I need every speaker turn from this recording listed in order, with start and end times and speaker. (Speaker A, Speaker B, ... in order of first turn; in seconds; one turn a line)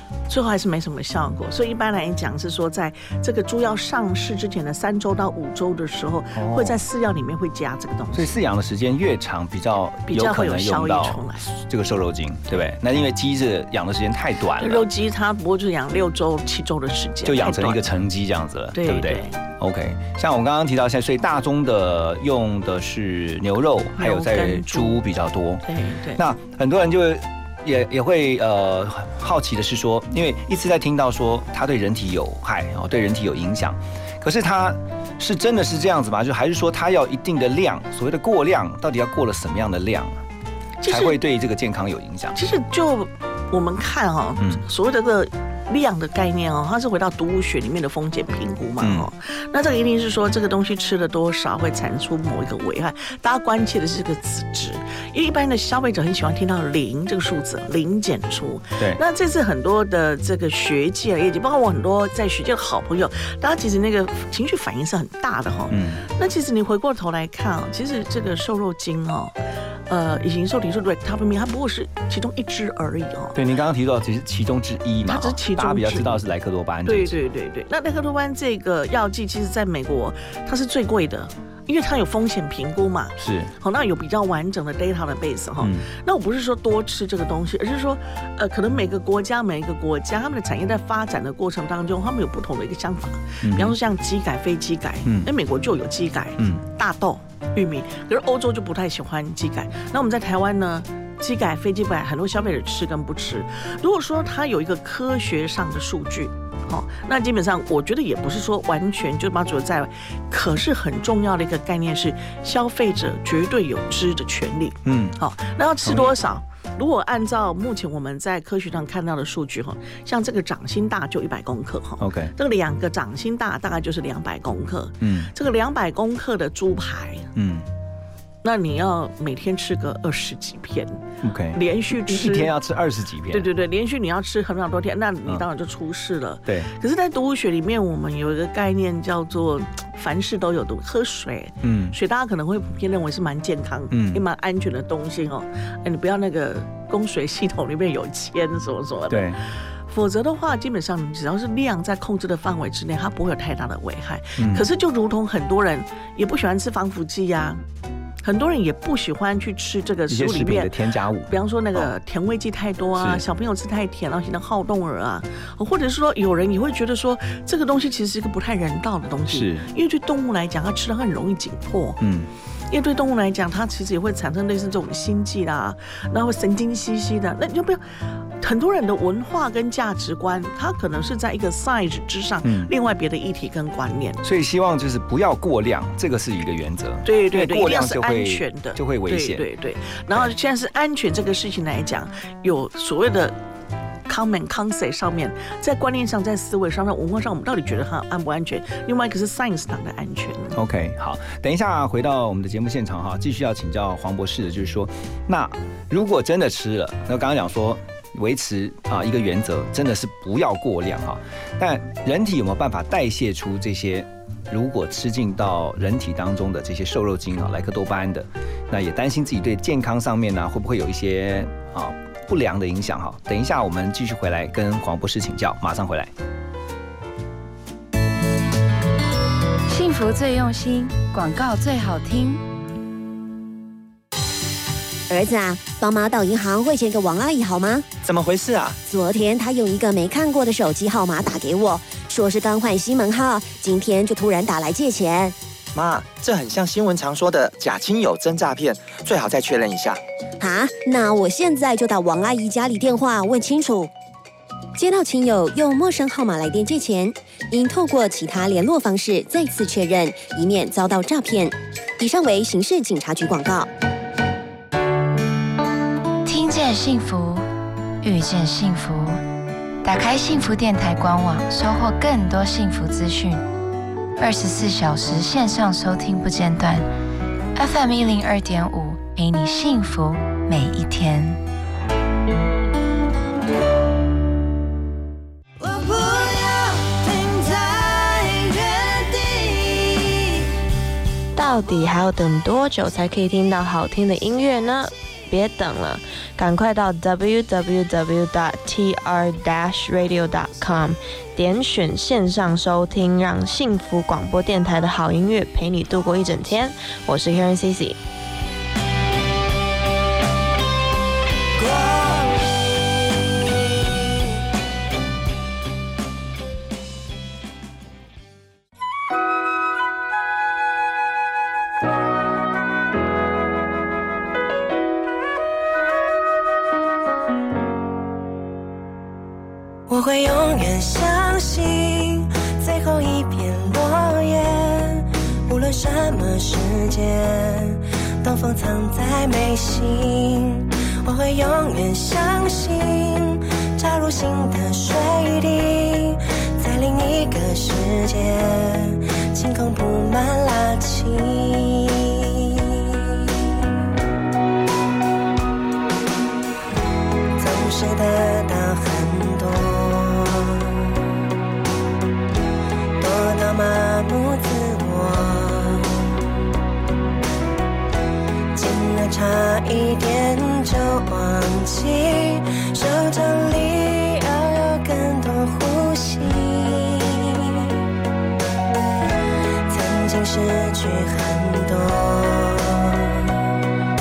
Speaker A: 0.3-8.3
Speaker B: 6.3-6.8
Speaker B: 8.1-14.8
Speaker A: 10.1-11.4
Speaker A: 14.6-17.9
Speaker B: 17.2-25.6
Speaker A: 18.7-19.4
Speaker A: 24.0-25.0
Speaker A: 25.6-26.2
Speaker B: 26.1-40.2
Speaker A: 40.8-41.2
Speaker B: 40.9-42.4
Speaker A: 42.3-69.3
Speaker B: 48.8-49.1
Speaker B: 65.7-66.0
Speaker A: 69.9-73.3
Speaker B: 73.3-77.1
Speaker A: 75.0-76.1
Speaker A: 76.8-127.3
Speaker B: 83.2-83.5
Speaker B: 85.6-85.8
Speaker B: 93.4-93.8
Speaker B: 114.8-115.2
Speaker B: 115.8-116.1
Speaker B: 122.0-122.3
Speaker B: 125.0-125.3
Speaker B: 127.3-127.7
Speaker A: 128.4-130.9
Speaker B: 131.2-133.5
Speaker A: 131.5-132.5
Speaker A: 133.3-149.3
Speaker B: 141.6-141.9
Speaker B: 143.9-144.2
Speaker B: 149.1-149.4
Speaker A: 149.9-157.6
Speaker B: 154.4-154.6
Speaker A: 158.2-160.7
Speaker B: 160.1-161.9
Speaker A: 161.3-172.0
Speaker B: 163.0-163.2
Speaker B: 169.3-169.7
Speaker B: 172.0-172.3
Speaker A: 172.7-177.8
Speaker A: 178.4-184.2
Speaker B: 182.4-182.7
Speaker B: 184.2-189.4
Speaker A: 187.0-193.3
Speaker A: 194.1-200.6
Speaker B: 200.5-226.1
Speaker C: 229.7-232.4
Speaker D: 235.1-237.9
Speaker E: 238.0-238.8
Speaker D: 238.8-245.3
Speaker E: 245.7-250.0
Speaker D: 250.4-253.9
Speaker D: 254.8-263.7
Speaker C: 266.2-267.4
Speaker C: 268.0-269.2
Speaker C: 269.8-273.4
Speaker C: 274.2-276.9
Speaker C: 277.6-281.4
Speaker F: 285.6-290.1
Speaker G: 291.3-308.0
Speaker F: 329.9-353.4
Speaker F: 357.4-360.9
Speaker F: 363.0-366.1
Speaker F: 368.5-377.7
Speaker F: 379.7-383.3